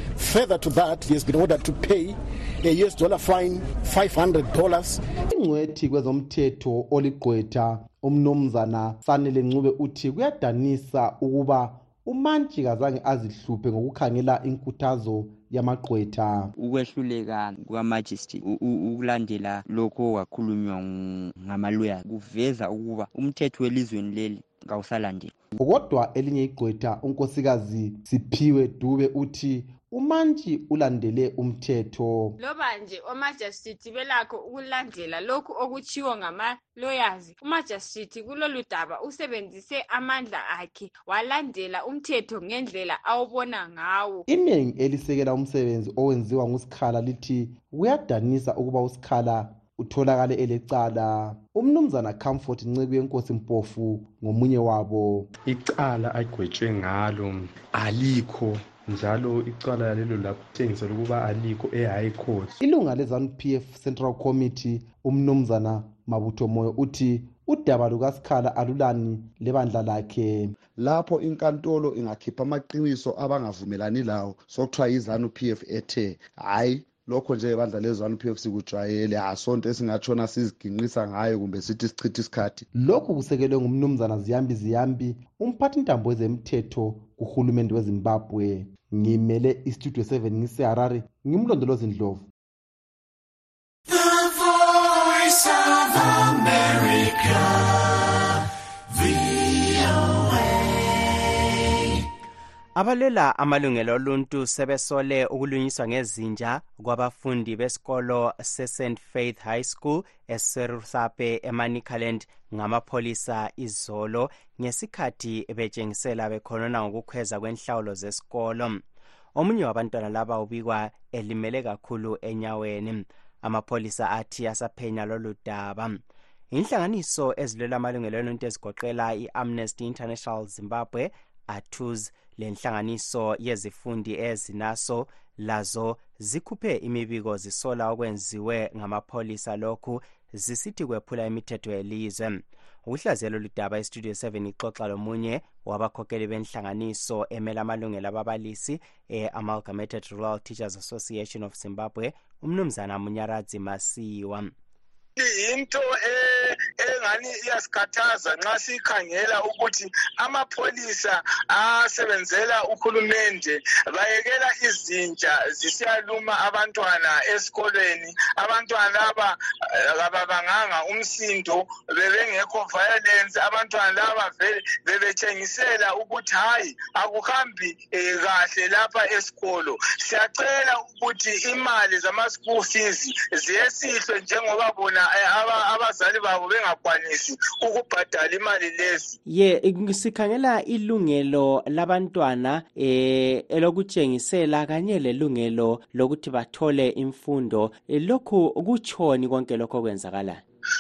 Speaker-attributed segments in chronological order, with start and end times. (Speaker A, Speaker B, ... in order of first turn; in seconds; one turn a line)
Speaker A: 0.1-5.0
Speaker B: 5.3-16.5
Speaker C: 16.6-25.4
Speaker B: 25.6-32.4
Speaker D: 32.4-44.3
Speaker B: 44.3-55.3
Speaker E: 55.5-62.5
Speaker B: 62.6-70.5
Speaker F: 70.8-82.7
Speaker B: 82.7-92.3
Speaker G: 102.8-118.8
Speaker G: 119.3-126.0
Speaker G: 126.5-154.5
Speaker H: 155.2-189.2
Speaker G: 189.3-200.4